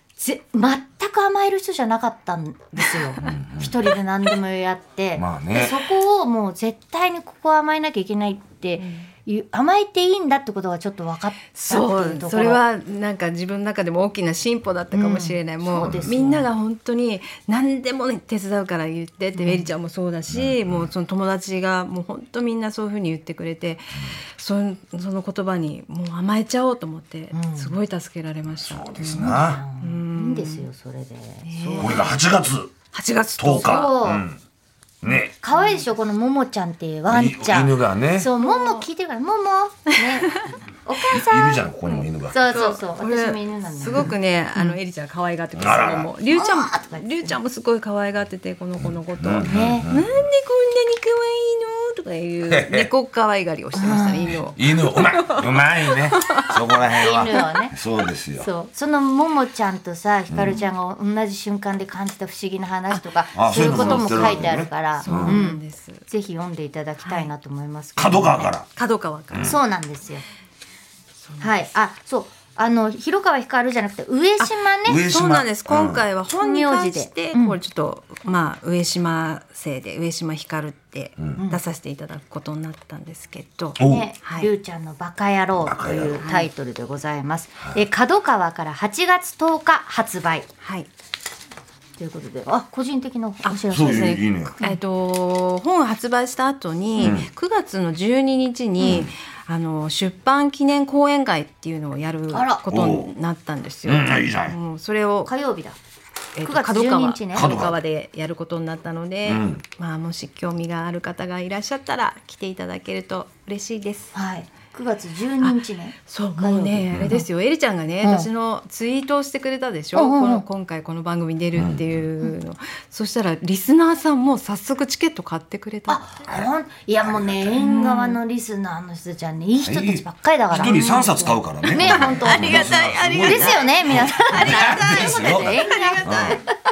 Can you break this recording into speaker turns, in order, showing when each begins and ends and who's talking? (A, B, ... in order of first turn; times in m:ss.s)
0:00.2-0:12.6 A
0:03.2-0:03.7 B
0:05.2-0:05.8 B
0:08.8-0:09.1 C
0:11.5-0:30.7 C
0:14.9-0:16.5 A
0:15.8-0:16.1 B
0:19.3-0:19.7 A
0:20.3-0:20.9 B
0:27.3-0:27.8 A
0:28.6-0:29.6 B
0:29.2-0:32.2 A
0:31.4-0:32.1 C
0:31.8-0:32.7 B
0:32.9-0:33.9 C
0:33.4-0:34.4 B
0:33.6-0:34.2 A
0:35.0-0:35.3 B
0:35.3-0:44.8 A
0:35.5-0:35.8 C
0:37.1-0:38.3 B
0:38.4-0:38.8 C
0:41.1-0:42.4 B
0:42.5-0:55.4 C
0:45.5-0:46.1 B
0:46.3-0:47.4 A
0:48.8-0:50.2 B
0:49.5-0:49.9 A
0:52.4-0:52.9 B
0:53.8-0:54.4 A
0:54.5-0:58.5 B
0:56.1-0:56.5 C
0:57.0-0:57.7 A
0:58.4-1:08.5 A
1:00.3-1:00.6 B
1:03.3-1:05.4 B
1:03.5-1:06.0 C
1:08.0-1:08.7 B
1:08.7-1:09.6 C
1:09.3-1:09.6 B
1:09.4-1:10.2 A
1:11.4-1:15.0 A
1:14.8-1:16.0 B
1:15.0-1:24.5 C
1:16.4-1:17.6 A
1:23.8-1:24.0 B
1:23.8-1:30.5 A
1:25.6-1:26.2 B
1:26.2-1:26.5 C
1:30.6-1:30.9 C
1:32.0-1:34.8 A
1:33.4-1:45.3 C
1:33.7-1:34.5 B
1:37.0-1:37.3 B
1:38.8-1:39.1 A
1:38.8-1:39.1 B
1:42.3-1:42.6 A
1:42.7-1:43.1 B
1:43.8-1:44.6 B
1:45.2-1:45.8 A
1:46.4-1:54.1 C
1:46.4-1:47.6 A
1:47.3-1:47.8 B
1:49.2-1:49.6 B
1:54.1-1:57.2 A
1:55.4-2:06.0 C
1:56.9-1:57.2 B
1:58.0-1:58.3 A
1:59.9-2:00.4 A
2:01.5-2:01.8 B
2:05.9-2:16.5 A
2:07.0-2:07.6 B
2:07.6-2:08.2 C
2:09.6-2:16.4 B
2:10.5-2:11.1 C
2:11.8-2:16.5 C